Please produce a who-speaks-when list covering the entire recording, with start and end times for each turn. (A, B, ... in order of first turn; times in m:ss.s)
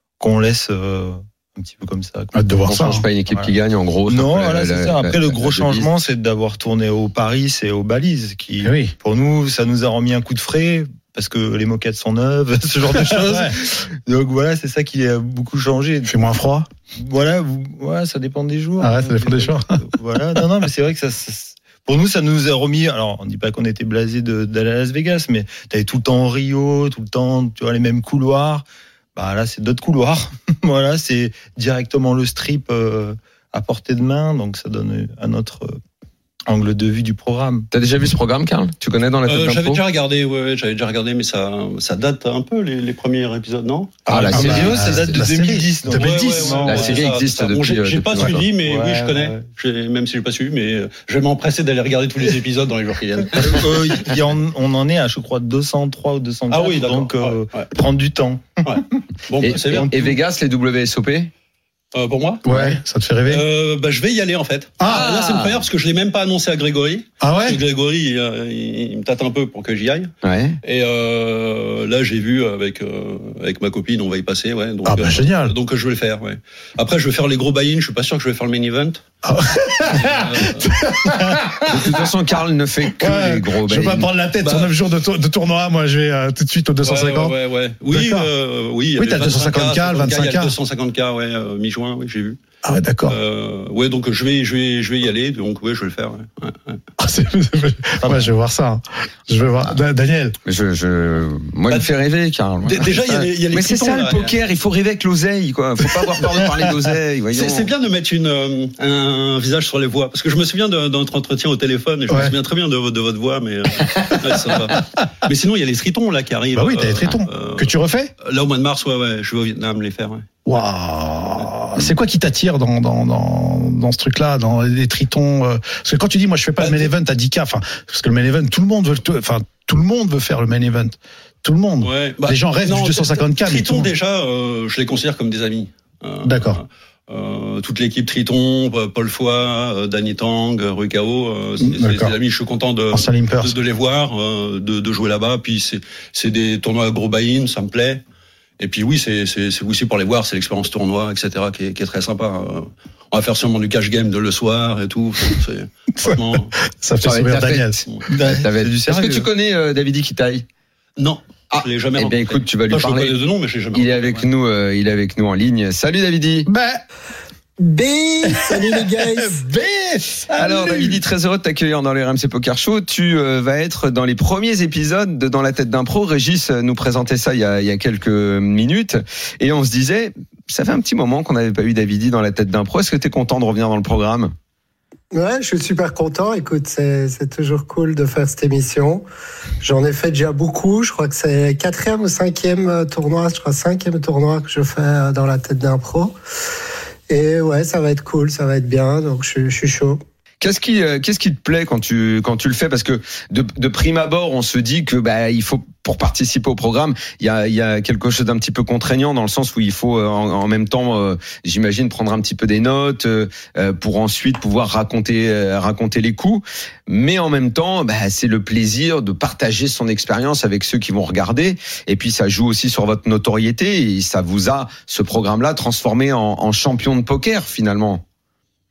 0:00.2-0:03.5 A
0:02.3-0:03.1 B
0:02.6-0:05.9 C
0:04.1-0:16.1 A
0:08.6-0:08.9 B
0:12.9-0:13.6 B
0:16.1-0:16.7 B
0:17.0-0:35.8 A
0:18.8-0:19.8 B
0:36.5-0:37.7 A
0:37.7-0:39.8 C
0:39.3-0:44.1 D
0:44.1-0:45.2 C
0:44.1-0:47.1 A
0:44.2-0:46.6 B
0:46.0-0:54.1 D
0:46.6-0:48.3 C
0:48.6-0:49.4 A
0:53.4-0:58.8 A
0:56.5-0:57.7 D
0:58.6-0:59.9 D
0:59.4-1:01.3 C
0:59.6-1:00.2 A
1:01.9-1:02.5 D
1:02.4-1:03.4 B
1:03.3-1:10.1 D
1:04.8-1:05.1 B
1:04.9-1:05.6 C
1:07.2-1:07.6 B
1:10.2-1:10.6 C
1:10.6-1:19.0 D
1:14.8-1:15.6 B
1:19.2-1:22.0 B
1:19.9-1:20.7 D
1:21.7-1:24.1 C
1:22.9-1:27.4 B
1:24.4-1:24.7 D
1:26.8-1:32.4 D
1:27.9-1:28.3 B
1:29.0-1:30.6 B
1:32.6-1:33.2 B
1:33.1-1:36.8 D
1:37.0-1:40.4 B
1:38.0-1:38.3 A
1:40.5-1:47.7 C
1:42.6-1:44.4 D
1:47.3-2:00.3 D
1:52.1-1:52.3 B
1:56.5-1:58.1 B
2:00.5-2:13.9 B
2:06.6-2:06.9 D
2:11.8-2:28.0 D
2:16.2-2:16.6 B
2:21.6-2:22.1 B
2:22.9-2:23.6 B
2:28.6-2:36.6 D
2:36.0-2:37.8 B
2:37.0-2:40.4 C
2:38.1-2:39.3 A
2:41.0-2:44.3 D
2:41.5-2:43.2 C
2:43.7-2:46.5 C
2:46.5-2:46.8 B
2:47.6-2:49.4 E
2:48.3-2:51.0 B
2:50.3-3:04.3 C
3:05.1-3:09.0 E
3:09.6-3:16.2 E
3:17.1-3:20.0 E
3:20.4-3:48.0 C